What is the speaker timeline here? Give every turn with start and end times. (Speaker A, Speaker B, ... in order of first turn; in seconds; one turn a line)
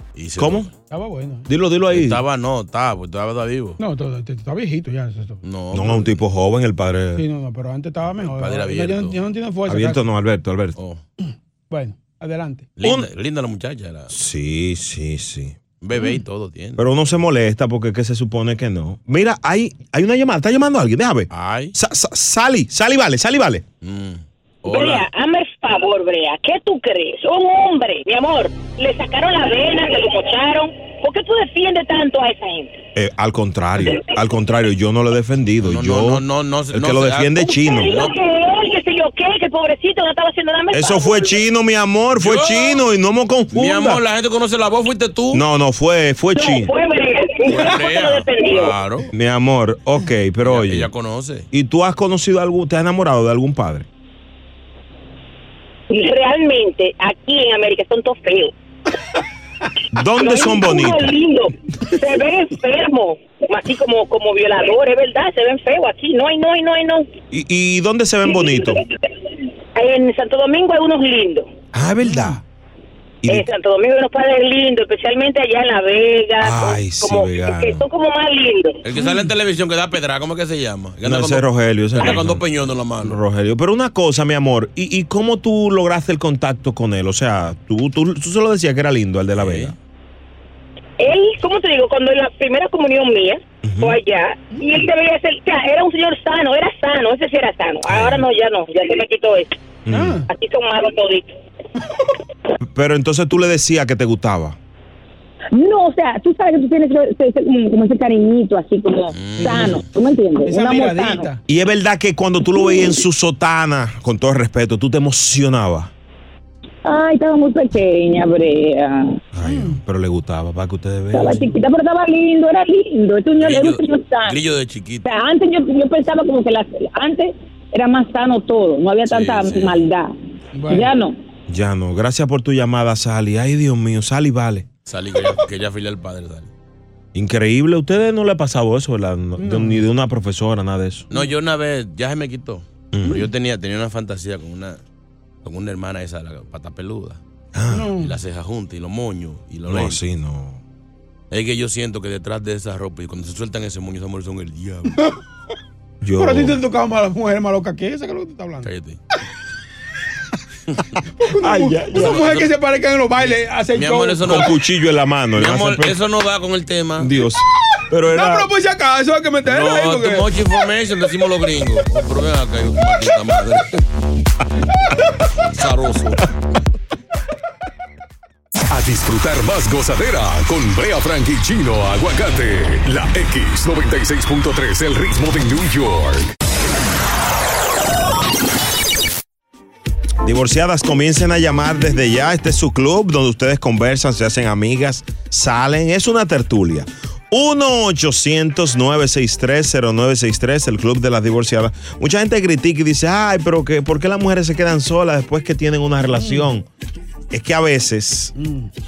Speaker A: 0.1-0.7
Speaker B: 0.4-0.7
Speaker C: 0.9-1.5
Speaker B: 1.5-2.2
Speaker A: 1.9-3.8
Speaker C: 3.8-5.4
Speaker A: 5.4-6.2
Speaker B: 5.7-7.2
Speaker C: 7.1-10.0
Speaker A: 8.2-9.2
Speaker B: 9.7-10.8
Speaker A: 10.8-11.0
Speaker C: 11.2-12.7
Speaker A: 12.8-14.1
Speaker B: 12.8-13.1
Speaker B: 14.1-15.6
Speaker A: 15.8-16.9
Speaker B: 16.8-23.6
Speaker A: 21.3-21.7
Speaker A: 23.8-25.1
Speaker D: 24.7-32.8
Speaker B: 32.9-37.9
Speaker D: 33.8-34.1
Speaker A: 35.6-38.1
Speaker D: 37.6-41.4
Speaker B: 40.7-44.0
Speaker A: 42.1-42.8
Speaker A: 43.5-45.4
Speaker B: 45.3-46.7
Speaker D: 46.3-48.7
Speaker A: 47.4-49.1
Speaker B: 49.1-50.9
Speaker A: 50.4-51.5
Speaker B: 51.5-53.9
Speaker D: 55.9-58.5
Speaker B: 59.9-61.1
Speaker D: 60.1-67.1
Speaker B: 67.3-68.8
Speaker D: 68.3-68.7
Speaker D: 69.7-71.5
Speaker B: 71.7-72.4
Speaker C: 72.0-72.4
Speaker D: 73.3-78.8
Speaker B: 76.4-77.8
Speaker A: 78.8-83.2
Speaker C: 79.0-79.2
Speaker B: 81.0-82.4
Speaker B: 83.0-89.7
Speaker A: 89.3-89.7
Speaker D: 91.0-99.5
Speaker B: 93.6-94.0
Speaker B: 97.8-98.2
Speaker B: 99.8-100.2
Speaker C: 99.9-100.3
Speaker D: 100.3-101.3
Speaker B: 102.6-104.6
Speaker E: 106.0-106.9
Speaker E: 107.5-111.2
Speaker A: 109.1-109.9
Speaker C: 109.4-109.8
Speaker C: 110.4-111.4
Speaker B: 111.5-115.9
Speaker E: 116.8-118.9
Speaker B: 119.3-121.5
Speaker C: 119.4-119.8
Speaker E: 121.2-124.3
Speaker A: 123.4-125.1
Speaker E: 125.1-130.0
Speaker A: 129.1-129.9
Speaker C: 130.5-130.9
Speaker B: 131.5-134.7
Speaker A: 134.8-136.5
Speaker B: 137.1-141.1
Speaker C: 139.4-139.8
Speaker A: 141.1-144.8
Speaker B: 142.9-143.2
Speaker A: 145.4-147.2
Speaker B: 147.5-147.9
Speaker C: 147.7-148.1
Speaker A: 148.0-150.0
Speaker B: 149.7-150.6
Speaker A: 151.3-155.0
Speaker B: 156.0-156.6
Speaker C: 156.2-158.7
Speaker A: 158.6-159.0
Speaker C: 161.2-164.5
Speaker B: 161.4-162.2
Speaker A: 161.9-162.5
Speaker A: 163.7-164.5
Speaker B: 164.2-166.0
Speaker A: 165.4-167.1
Speaker B: 167.0-168.5
Speaker C: 168.1-170.3
Speaker A: 169.4-173.8
Speaker A: 175.4-176.2
Speaker F: 178.7-186.3
Speaker B: 190.2-206.7
Speaker C: 206.1-206.5
Speaker B: 207.3-208.3
Speaker C: 208.3-208.7